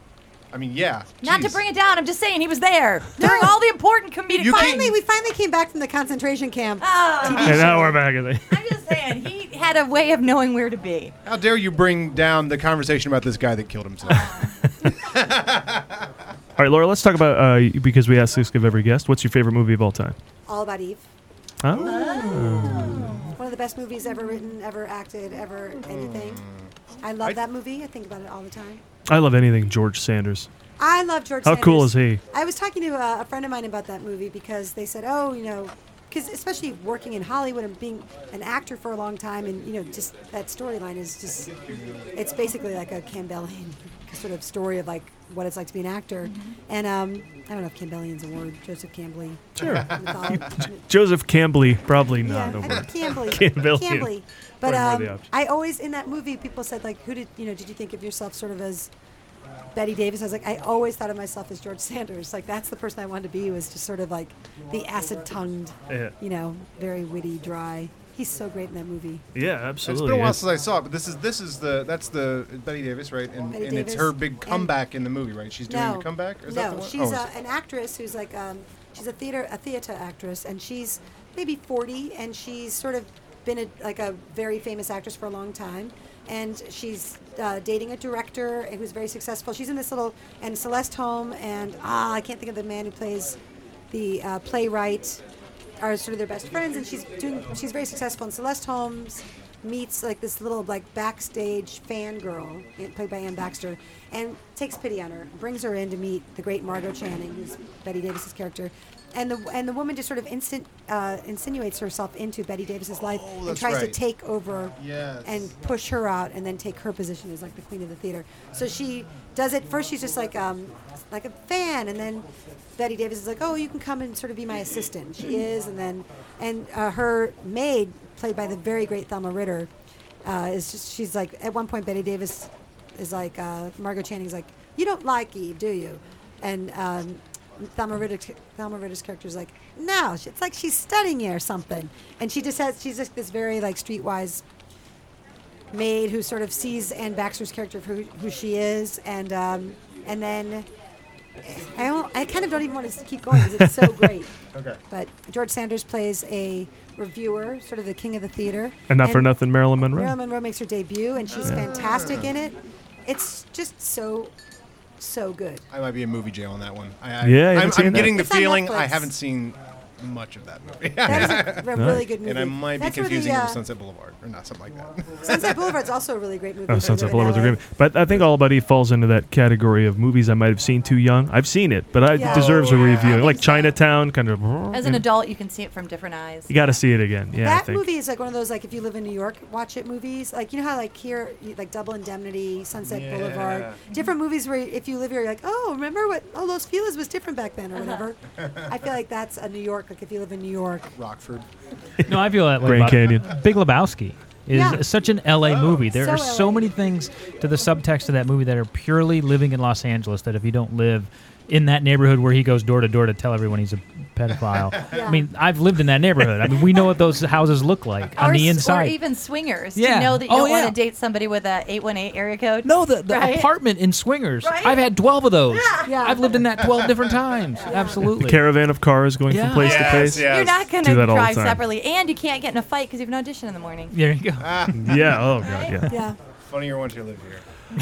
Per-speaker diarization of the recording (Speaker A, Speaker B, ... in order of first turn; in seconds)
Speaker A: 0.5-1.6, 4.3-4.9, 11.2-14.4, 15.0-16.1, 21.7-23.2, 25.9-27.4, 41.8-42.1, 49.6-50.5, 69.8-77.3, 113.0-114.0, 114.8-115.5, 154.5-154.8, 161.6-162.3, 165.7-175.8, 182.2-183.3, 192.8-193.8, 200.9-201.5, 205.4-205.8, 229.6-230.7, 234.4-235.4, 236.5-237.4
Speaker B: 1.2-5.0, 6.8-7.8, 8.5-11.2, 14.1-14.5, 21.8-23.2, 46.2-46.5, 184.7-186.7, 218.2-223.5, 224.4-224.9, 225.5-226.0, 230.0-233.9, 235.4-235.8
Speaker C: 3.2-3.6, 4.4-8.0, 20.5-21.1, 21.9-22.4, 23.4-26.4, 27.0-28.8, 30.8-41.5, 42.1-50.9, 52.2-58.9, 59.7-69.3, 73.5-74.7, 75.7-93.4, 93.9-95.2, 95.8-129.7, 130.2-144.4, 145.7-150.7, 151.4-154.3, 154.9-164.3, 165.0-165.6, 167.9-169.1, 171.0-173.6, 175.2-177.6, 182.1-183.8, 187.4-200.9, 204.5-204.8, 205.9-206.7, 214.9-215.3, 225.8-226.4, 227.6-228.1, 235.9-236.2
Speaker D: 7.3-8.6, 16.6-20.2, 21.6-23.1, 29.1-30.5, 31.4-32.2, 49.6-55.3, 65.9-66.1, 69.3-70.4, 153.6-154.1, 158.9-160.2, 167.2-168.2, 171.2-172.1, 176.7-185.1, 186.5-187.9, 202.6-203.3, 228.1-231.6, 234.7-236.0
Speaker E: 202.1-219.0, 219.8-220.8, 222.6-228.4, 229.3-229.9, 233.9-234.7